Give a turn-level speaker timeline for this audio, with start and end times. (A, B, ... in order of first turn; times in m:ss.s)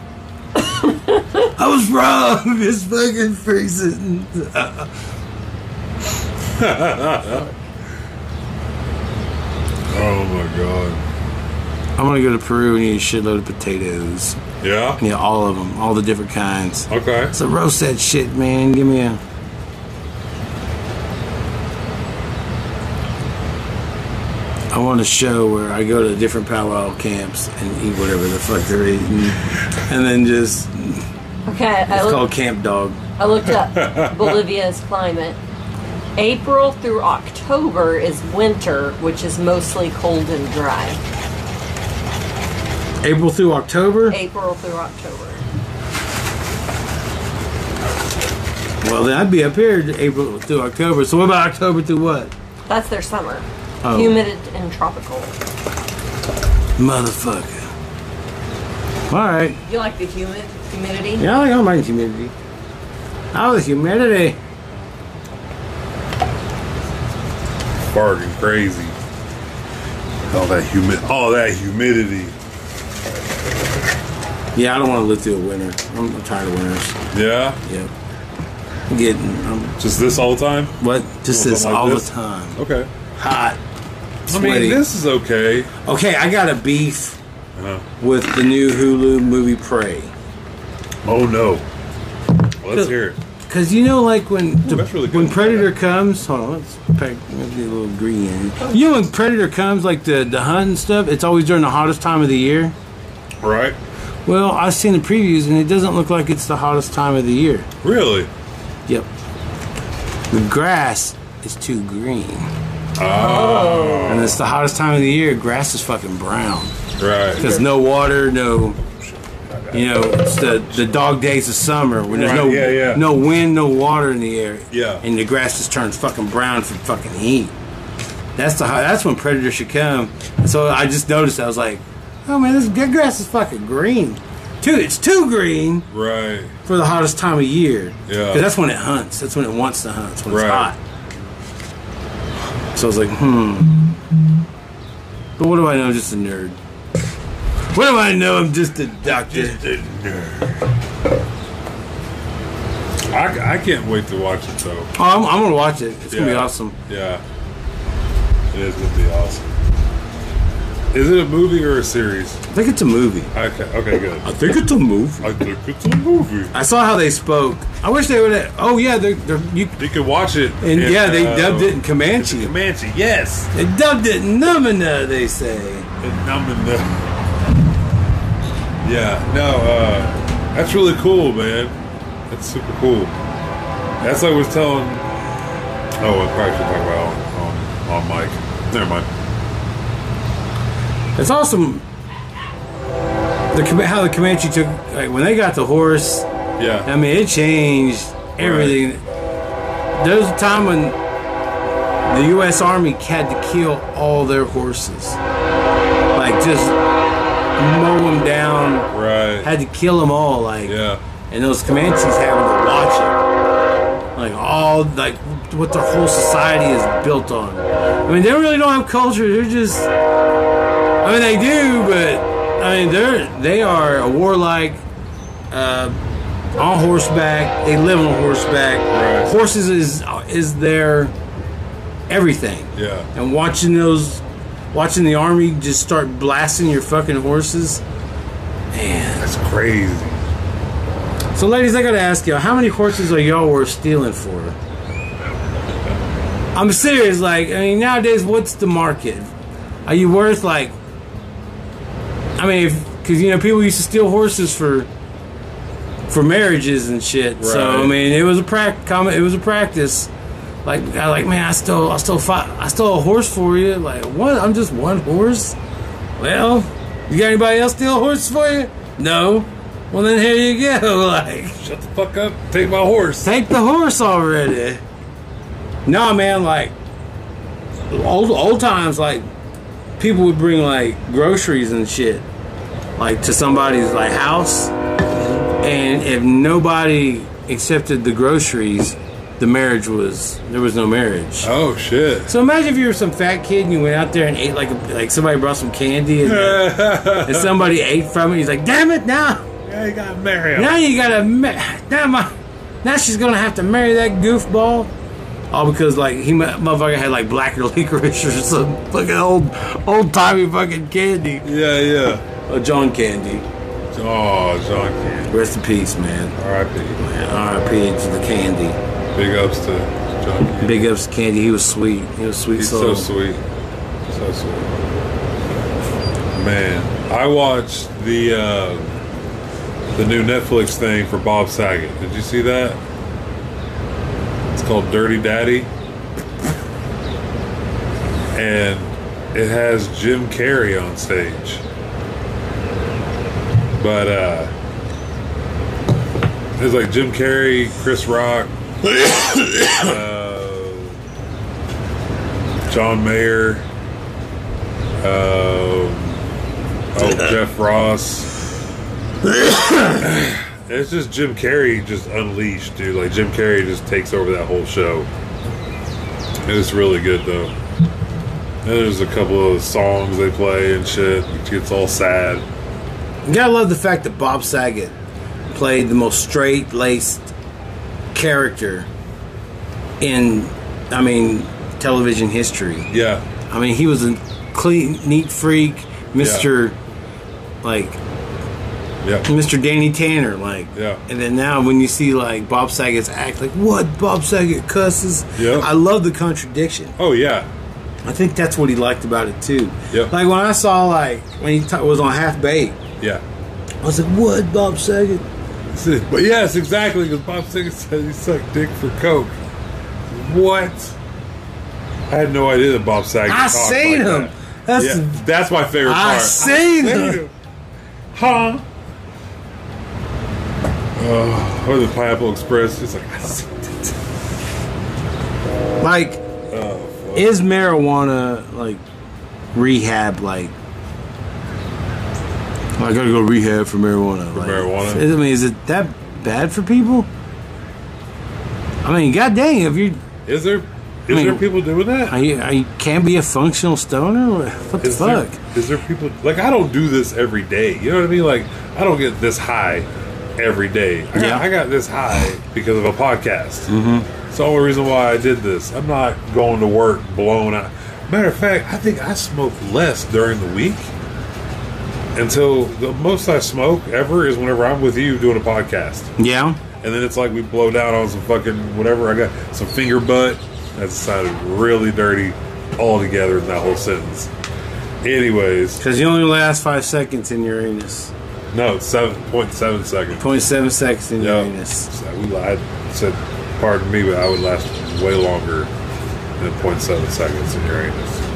0:01.4-0:04.9 A
0:06.5-0:07.5 B
0:09.9-0:11.0 B
0:12.0-0:14.4 A
0:14.6-0:15.0 B
0:15.0-0:19.2 A
0:16.9-0:17.3 B
0:24.7-0:31.1 A
0:31.5-0:32.3 C
0:31.9-0:33.0 A
0:33.2-0:35.4 C
0:33.5-0:34.4 B
0:36.2-0:41.0 C
0:43.0-0:44.2 A
0:44.1-0:45.4 C
0:48.8-0:52.3 A
0:52.7-0:55.4 C
0:53.8-0:54.2 A
0:56.8-0:57.6 A
0:59.1-0:59.6 A
0:59.6-1:01.2 C
1:01.2-1:02.3 A
1:03.3-1:04.4 A
1:07.9-1:09.0 B
1:10.3-1:12.4 B
1:14.6-1:17.0 A
1:17.1-1:17.6 B
1:17.6-1:17.9 A
1:18.9-1:19.8 A
1:19.8-1:22.9 B
1:20.8-1:22.6 A
1:23.2-1:23.6 A
1:24.3-1:24.8 A
1:24.3-1:25.7 B
1:25.8-1:27.2 A
1:27.6-1:27.8 B
1:28.0-1:30.1 A
1:31.0-1:31.6 B
1:32.6-1:33.2 B
1:33.4-1:42.8 A
1:34.6-1:35.7 B
1:43.4-1:43.8 B
1:44.3-1:47.7 A
1:47.8-1:48.3 B
1:50.3-1:52.5 A
1:53.0-1:54.4 B
1:54.1-1:56.7 A
1:57.0-1:57.6 B
1:57.4-1:58.8 A
1:59.0-2:01.0 B
1:59.7-2:07.6 A
2:02.1-2:03.1 B
2:04.7-2:05.0 B
2:08.4-2:15.9 A
2:15.9-2:16.6 B
2:16.6-2:20.8 A
2:18.1-2:18.5 B
2:20.3-2:20.7 B
2:22.7-2:24.0 A
2:25.4-2:26.6 A
2:27.7-2:29.7 A
2:29.5-2:30.5 B
2:33.1-2:34.9 B
2:35.0-2:36.8 A
2:36.1-2:37.2 B
2:38.5-2:39.5 B
2:40.9-2:42.4 B
2:42.5-2:43.3 A
2:43.3-2:44.5 B
2:44.2-2:45.3 A
2:45.2-2:46.5 B
2:46.5-2:49.8 A
2:49.8-2:53.5 B
2:50.6-2:52.5 A
2:53.5-2:55.9 A
2:56.0-2:57.1 B
2:58.8-3:01.8 B
3:02.3-3:03.1 B
3:04.0-3:05.2 B
3:06.0-3:09.1 B
3:11.2-3:11.9 A
3:13.5-3:16.3 A
3:16.6-3:16.9 B
3:16.8-3:19.0 A
3:18.4-3:18.8 B
3:20.0-3:21.0 A
3:22.0-3:25.2 A
3:26.2-3:26.8 A
3:27.6-3:28.9 A
3:28.9-3:29.5 B
3:29.4-3:33.2 A
3:30.7-3:31.0 B
3:34.2-3:39.9 A
3:41.0-3:44.8 A
3:45.5-3:46.0 A
3:46.6-3:51.1 A
3:48.9-3:49.3 B
3:52.1-3:57.8 A
3:52.8-3:53.1 B
3:58.7-3:59.3 A
3:59.2-4:00.2 B
4:01.4-4:04.6 A
4:06.6-4:09.3 A
4:09.9-4:10.8 A
4:12.4-4:14.9 A
4:16.1-4:20.1 A
4:17.4-4:18.0 B
4:20.6-4:25.6 A
4:26.2-4:31.6 A
4:31.6-4:33.3 B
4:33.2-4:34.8 A
4:35.9-4:36.7 A
4:37.9-4:39.2 A
4:40.0-4:42.3 A
4:43.0-4:51.5 A
4:51.4-4:52.4 B
4:52.3-4:59.5 A
4:56.2-4:57.6 B
4:59.6-5:00.8 B
5:00.6-5:04.9 A
5:05.5-5:11.5 A
5:11.4-5:12.2 B
5:12.5-5:13.5 A
5:13.9-5:15.5 B
5:15.3-5:16.4 A
5:16.4-5:17.0 B
5:17.0-5:18.8 A
5:19.1-5:20.9 B
5:20.6-5:23.1 A
5:22.6-5:23.4 B
5:24.1-5:25.1 B
5:26.3-5:29.0 B
5:29.9-5:32.8 B
5:34.5-5:35.7 B
5:38.4-5:41.6 B
5:43.8-5:44.5 B
5:46.6-5:48.5 B
5:49.3-5:51.0 B
5:52.7-5:53.7 B
5:55.0-5:56.2 B
5:56.9-5:58.3 B
6:00.0-6:05.1 B
6:06.4-6:07.5 B
6:08.6-6:12.4 B
6:13.3-6:15.0 A
6:15.5-6:17.3 A
6:18.1-6:18.9 A
6:20.0-6:22.9 A
6:22.9-6:23.2 B
6:23.5-6:26.8 A
6:26.2-6:26.5 B
6:27.6-6:28.0 A
6:29.0-6:29.3 B
6:29.3-6:37.0 A
6:30.8-6:31.0 B
6:35.4-6:35.7 B
6:37.0-6:37.5 B
6:38.0-6:42.8 A
6:43.8-6:45.2 A
6:45.7-6:49.4 B
6:50.1-6:51.0 B
6:52.1-6:57.3 B
6:53.3-6:55.2 A
6:55.8-6:57.2 A
6:58.1-6:58.6 B
7:01.0-7:04.0 B
7:05.8-7:06.2 A
7:06.5-7:07.4 B
7:07.1-7:08.8 A
7:09.5-7:10.5 A
7:12.8-7:17.1 A
7:14.3-7:15.1 B
7:18.8-7:20.0 A
7:20.3-7:22.2 B
7:21.1-7:21.5 A
7:22.0-7:25.4 A
7:24.8-7:33.7 B
7:31.2-7:31.5 A
7:33.7-7:34.1 A
7:34.2-7:40.9 B
7:42.2-7:46.1 B
7:46.2-7:46.6 A
7:46.8-7:54.3 B
7:55.0-7:55.8 B
7:55.8-7:58.1 A
7:58.5-8:00.4 B
8:00.2-8:01.9 A
8:01.2-8:05.7 B
8:06.4-8:08.2 B